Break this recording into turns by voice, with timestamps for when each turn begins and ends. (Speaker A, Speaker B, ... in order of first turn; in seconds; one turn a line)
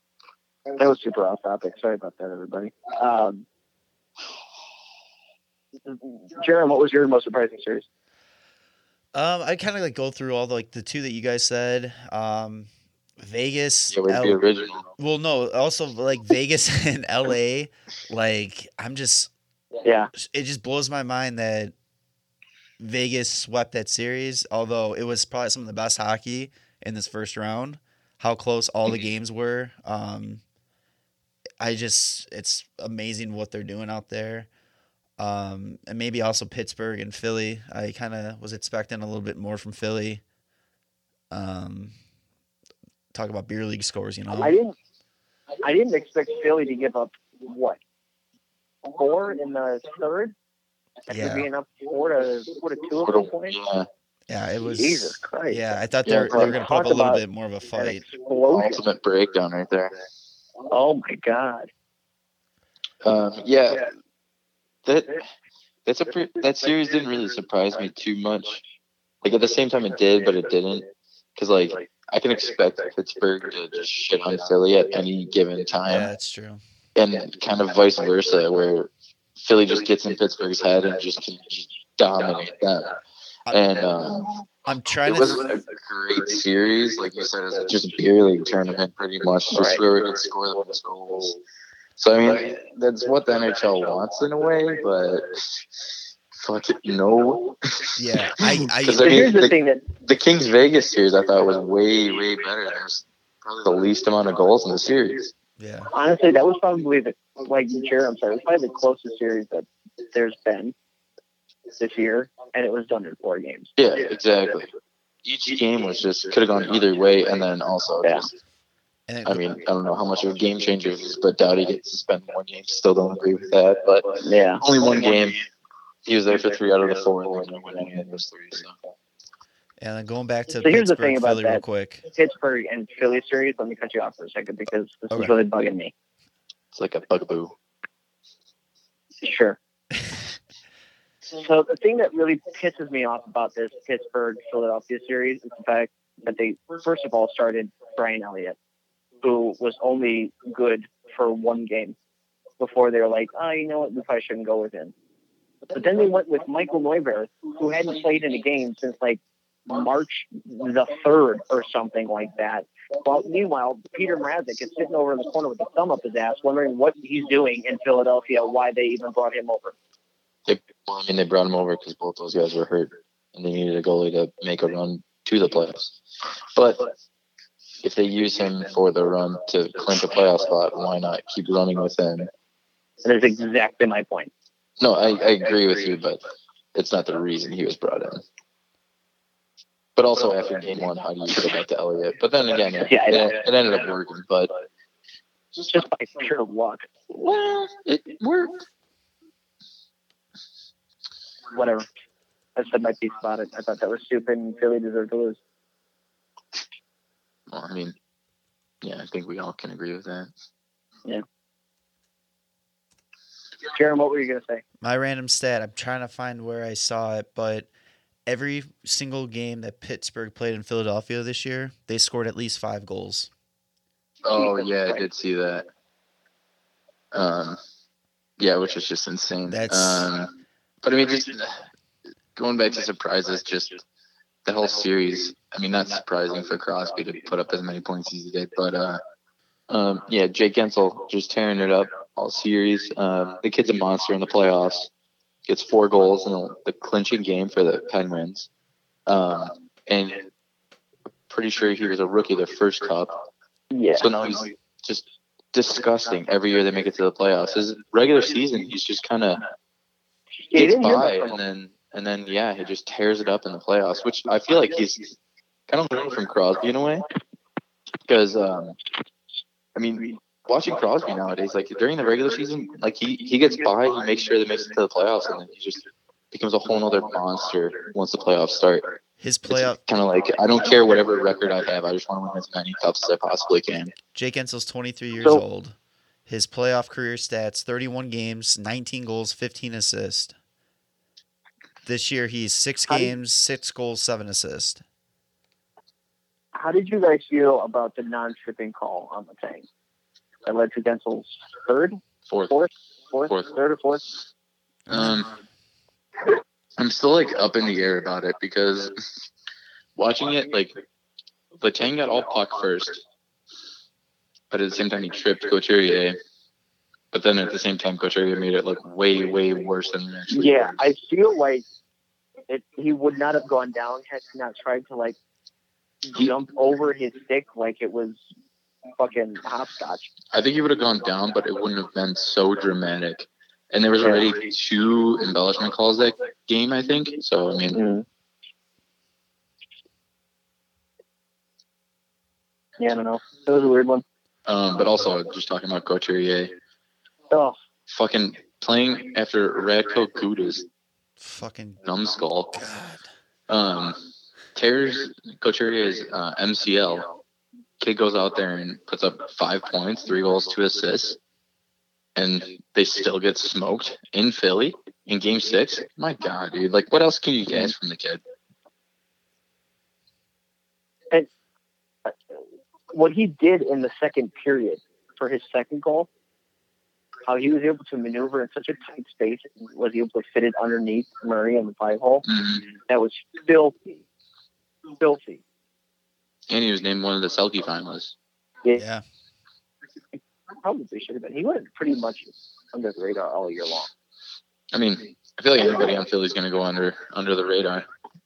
Speaker A: 0.8-3.5
Speaker A: 5.9-7.9
Speaker B: 9.1-14.4
Speaker C: 13.9-14.9
Speaker B: 15.0-19.3
Speaker A: 19.8-20.1
Speaker B: 20.1-21.7
Speaker B: 22.8-30.4
Speaker B: 31.6-34.5
Speaker B: 35.2-40.2
Speaker B: 41.3-41.9
Speaker B: 43.1-44.6
Speaker A: 44.4-44.8
Speaker A: 45.6-47.8
Speaker A: 48.9-50.3
Speaker A: 51.1-53.6
Speaker B: 51.1-51.5
Speaker C: 53.0-53.9
Speaker B: 54.3-58.0
Speaker A: 54.8-55.7
Speaker C: 56.0-56.5
Speaker A: 56.2-57.2
Speaker A: 57.8-58.8
Speaker C: 58.5-59.9
Speaker A: 60.7-61.7
Speaker C: 63.0-63.9
Speaker C: 64.9-65.2
Speaker C: 65.9-68.6
Speaker C: 69.2-76.1
Speaker B: 75.9-76.6
Speaker C: 77.0-83.0
Speaker C: 83.5-84.4
Speaker B: 84.7-85.4
Speaker C: 85.1-91.4
Speaker A: 89.5-89.8
Speaker C: 92.0-95.7
Speaker C: 96.3-105.3
Speaker B: 98.0-99.3
Speaker A: 99.0-99.8
Speaker B: 105.6-105.9
Speaker A: 105.9-110.7
Speaker A: 111.8-113.7
Speaker C: 113.8-114.7
Speaker C: 115.2-118.3
Speaker B: 119.1-119.6
Speaker C: 119.2-125.5
Speaker A: 124.2-124.6
Speaker C: 126.1-128.8
Speaker B: 129.8-132.0
Speaker A: 130.5-135.9
Speaker C: 136.7-137.5
Speaker A: 139.2-139.6
Speaker A: 141.3-148.6
Speaker A: 149.2-152.0
Speaker A: 152.6-154.9
Speaker A: 155.7-169.8
Speaker C: 170.5-176.0
Speaker C: 176.5-176.9
Speaker C: 177.8-182.3
Speaker A: 183.0-184.3
Speaker C: 184.8-186.2
Speaker C: 186.7-188.2
Speaker C: 190.0-194.5
Speaker A: 192.9-193.3
Speaker A: 195.6-196.9
Speaker C: 197.1-198.6
Speaker A: 201.5-201.9
Speaker A: 202.6-205.4
Speaker C: 207.5-207.9
Speaker C: 208.8-210.3
Speaker A: 213.7-214.6
Speaker B: 214.8-217.7
Speaker B: 218.3-223.3
Speaker C: 224.2-225.7
Speaker A: 224.4-225.0
Speaker C: 227.1-227.6
Speaker C: 228.4-230.3
Speaker B: 229.5-230.1
Speaker C: 230.8-231.7
Speaker C: 232.4-233.8
Speaker C: 234.4-239.0
Speaker C: 239.7-244.9
Speaker C: 245.5-248.5
Speaker C: 249.1-250.2
Speaker C: 251.3-253.2
Speaker A: 253.7-254.1
Speaker C: 254.0-259.4
Speaker A: 260.5-261.3
Speaker C: 260.5-265.1
Speaker C: 265.7-267.1
Speaker C: 268.1-268.8
Speaker C: 269.8-278.9
Speaker B: 279.2-279.8
Speaker C: 279.5-283.9
Speaker B: 284.1-285.8
Speaker B: 286.3-290.3
Speaker B: 291.9-294.8
Speaker A: 296.5-299.7
Speaker A: 300.4-304.1
Speaker C: 302.3-302.5
Speaker B: 304.9-305.2
Speaker C: 304.9-305.3
Speaker C: 306.8-309.0
Speaker C: 310.0-310.8
Speaker C: 311.6-313.0
Speaker C: 314.5-316.2
Speaker C: 317.1-320.8
Speaker A: 320.3-321.6
Speaker A: 322.5-325.2
Speaker A: 326.1-328.2
Speaker A: 329.0-330.1
Speaker C: 330.3-337.8
Speaker A: 337.7-338.1
Speaker A: 342.8-344.0
Speaker C: 344.5-346.5
Speaker A: 347.3-347.6
Speaker C: 347.9-350.7
Speaker B: 351.2-351.8
Speaker C: 351.8-352.6
Speaker B: 352.5-353.1
Speaker C: 353.5-354.0
Speaker C: 354.6-357.1
Speaker C: 357.8-361.2
Speaker C: 362.2-368.2
Speaker A: 372.9-376.1
Speaker A: 377.3-382.3
Speaker C: 382.3-382.6
Speaker A: 382.9-383.8
Speaker A: 385.0-385.4
Speaker C: 386.5-388.1
Speaker B: 388.8-389.0
Speaker A: 390.6-393.9
Speaker C: 394.7-397.9